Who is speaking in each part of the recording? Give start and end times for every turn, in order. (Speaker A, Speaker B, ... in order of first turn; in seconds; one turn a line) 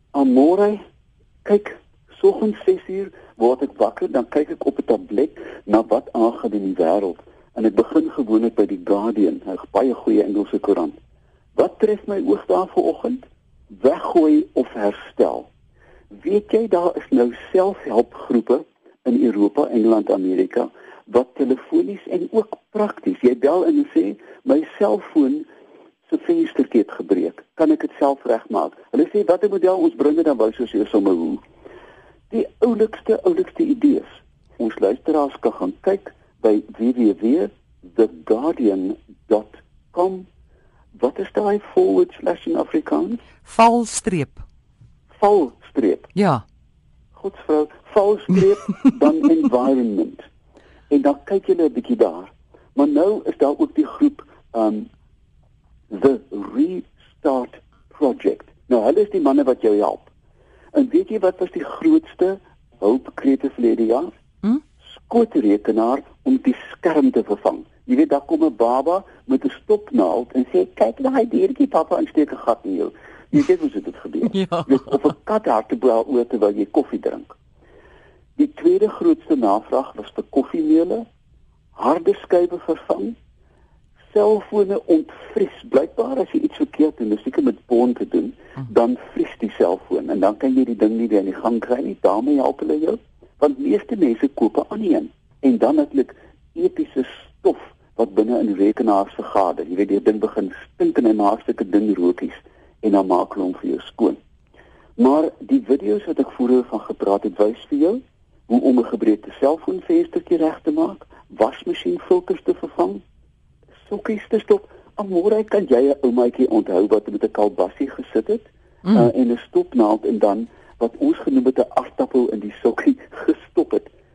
Speaker A: 0.1-0.8
Speaker A: 1.4-10.9
Speaker A: 11.6-15.5
Speaker A: 16.1-25.4
Speaker A: 26.1-31.4
Speaker A: 32.3-40.3
Speaker A: 41.0-43.2
Speaker B: 43.4-44.4
Speaker A: 45.1-46.1
Speaker B: 46.1-46.4
Speaker A: 47.1-50.2
Speaker A: 50.9-54.9
Speaker A: 55.9-60.1
Speaker A: 60.7-64.1
Speaker A: 64.9-77.3
Speaker B: 74.3-74.8
Speaker A: 78.4-81.0
Speaker A: 81.8-83.1
Speaker A: 84.1-104.2
Speaker A: 105.0-113.0
Speaker A: 113.9-123.9